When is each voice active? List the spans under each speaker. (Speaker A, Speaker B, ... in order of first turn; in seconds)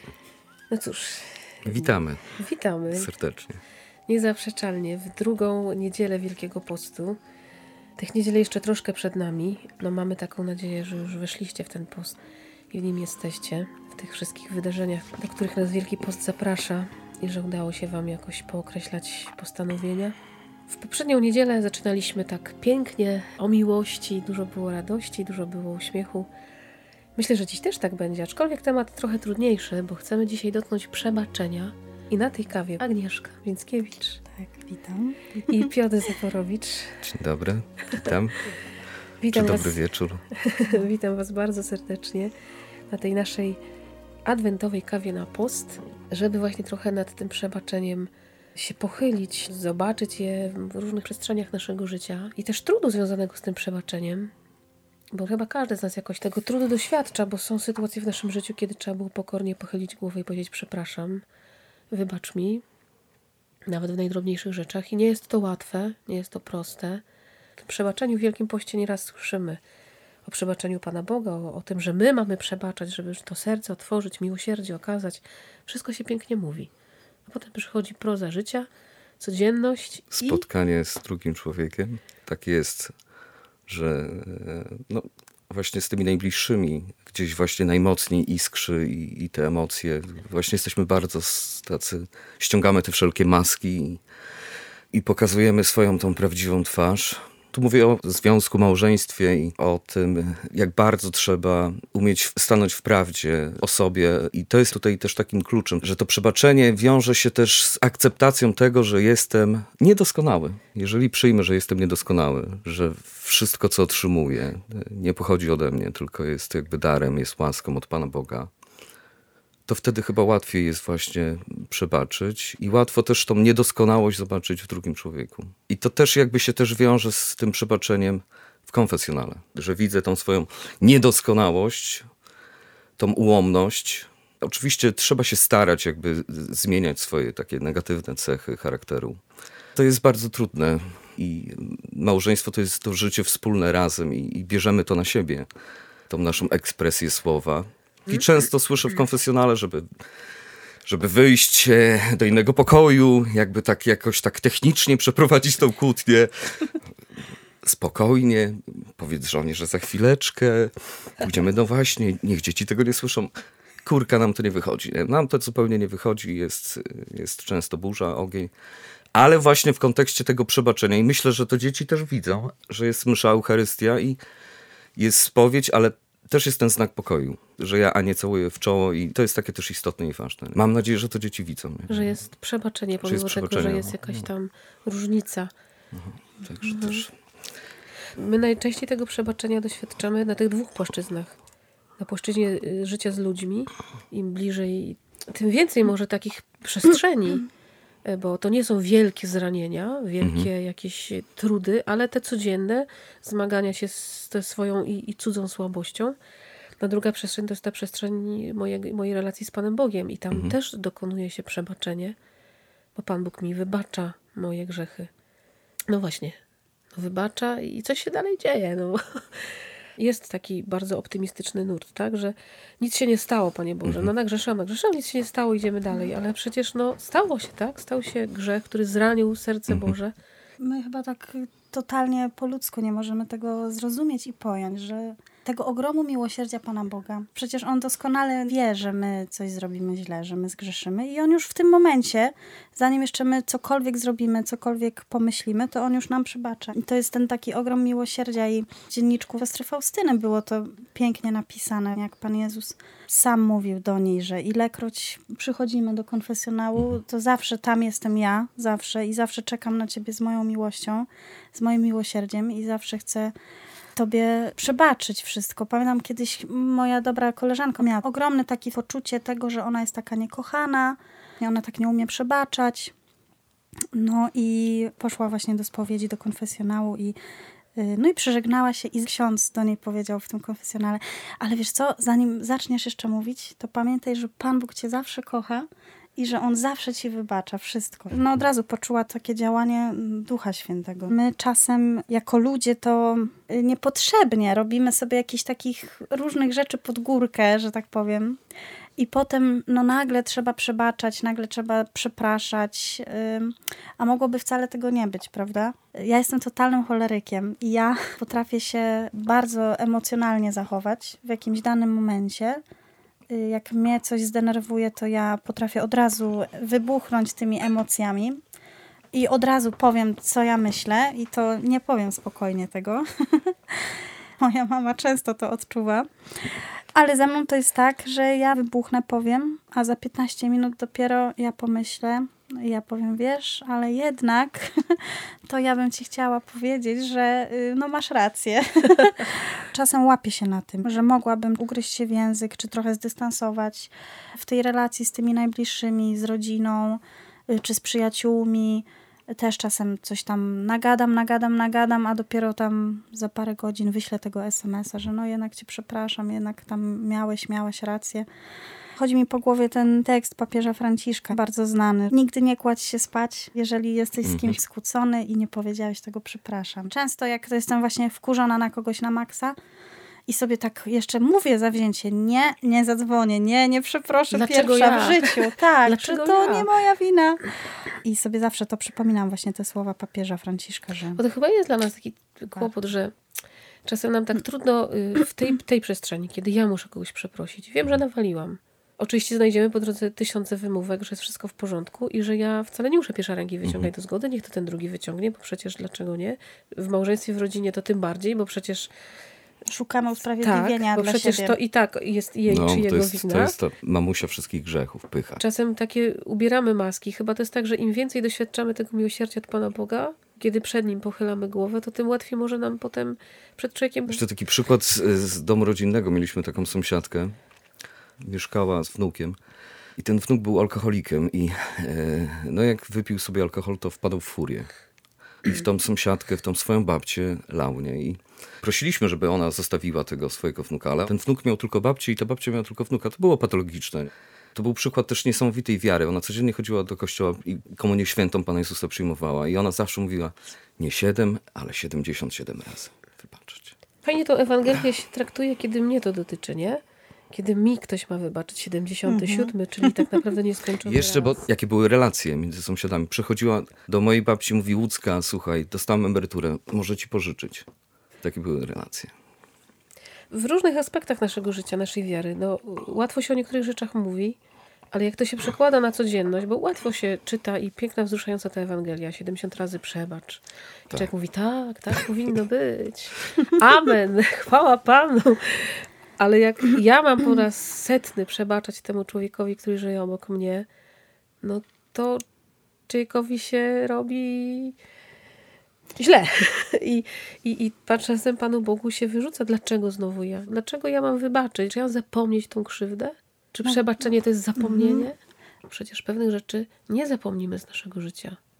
Speaker A: 0.7-3.1, 4.1-7.2, 8.0-12.2, 12.7-20.1, 20.7-26.3, 27.1-34.2, 35.5-37.0, 39.2-39.8, 40.3-42.3, 42.9-43.6, 44.2-54.3, 55.1-61.2, 61.9-62.6, 63.6-67.0, 67.6-69.6, 70.2-76.7, 77.3-78.7, 79.2-80.4, 181.9-185.5, 186.6-187.0, 188.2-191.4, 192.0-197.5, 198.0-206.1, 206.8-212.2, 212.9-215.1, 215.9-216.4, 216.9-230.1, 374.3-376.7, 381.1-383.1, 383.8-398.9, 400.4-403.5, 405.4-414.2, 444.0-451.4, 460.3-464.4, 464.9-480.7, 481.4-482.2, 482.9-484.8, 486.0-498.4
Speaker B: 1.6-2.3, 2.9-3.6, 37.0-38.5, 39.3-40.2, 80.1-82.9, 83.7-94.0, 94.9-118.5, 119.7-132.1, 133.0-139.2, 139.8-145.5, 146.1-149.9, 150.8-156.8, 157.6-163.3, 163.8-168.5, 169.1-174.2, 174.9-182.2, 183.0-184.3, 185.9-187.1, 200.2-200.5, 364.2-364.6, 393.6-393.9, 402.5-405.4, 414.1-417.3, 418.2-419.4, 420.0-424.7, 425.4-443.8, 450.8-457.7, 458.2-459.1
Speaker C: 34.3-35.7, 230.6-263.3, 263.9-272.9, 273.9-277.1, 277.8-298.4, 299.0-312.6, 313.3-318.4, 319.1-326.1, 326.9-358.3, 358.9-369.6, 370.3-377.5, 378.0-381.2, 399.7-401.6, 449.1-450.1, 494.6-495.1